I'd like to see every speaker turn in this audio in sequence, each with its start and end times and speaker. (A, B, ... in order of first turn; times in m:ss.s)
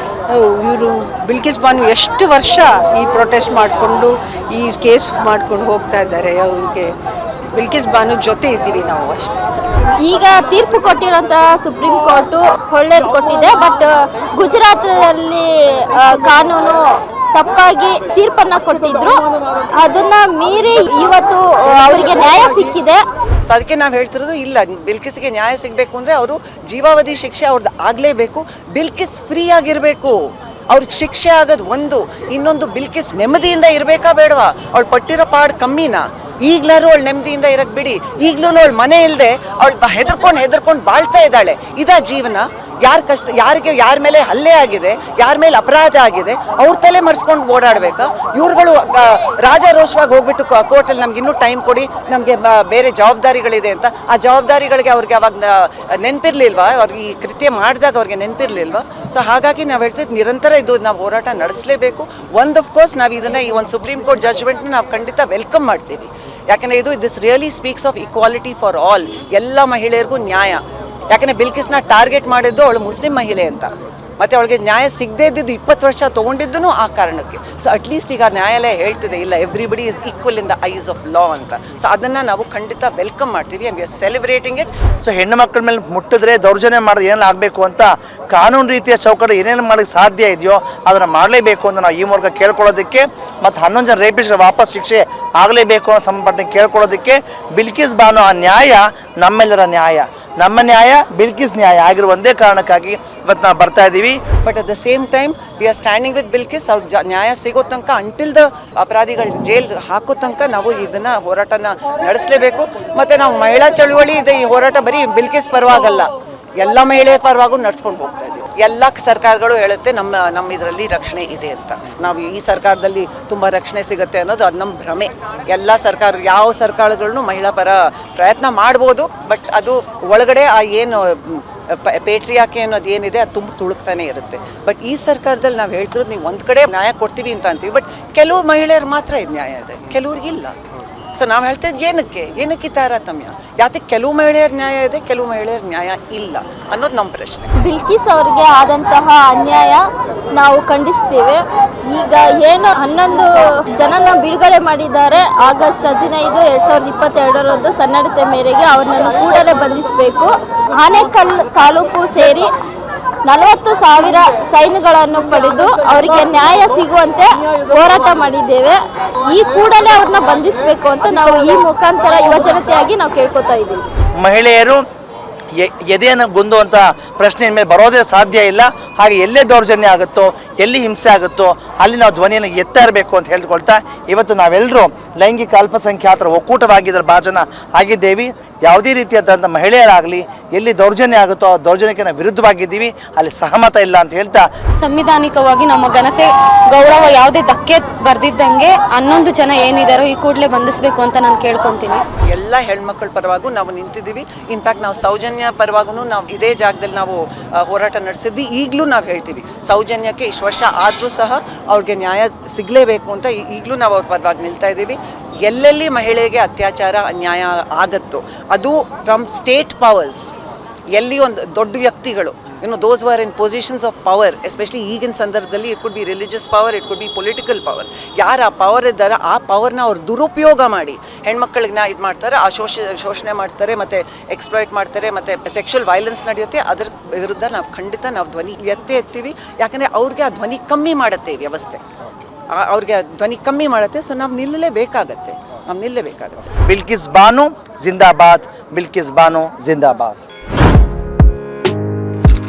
0:00.3-0:06.9 A
0:07.6-0:09.4 A
0:10.0-0:16.8 B
0:17.3-0:19.2 B
0:19.8-0:23.0 B
0:23.5-0:30.2 C
0:30.7-1:24.7 C
1:25.0-1:44.2 D
1:44.4-2:20.6 C
2:21.2-2:27.5 C
2:27.6-2:42.5 B
2:43.3-2:53.9 B
2:54.2-2:54.8 D
2:55.6-3:14.5 D
3:14.8-3:22.0 E
3:22.3-3:40.3 C
3:40.9-4:01.8 C
4:02.5-4:06.5 C
4:06.6-4:10.3 D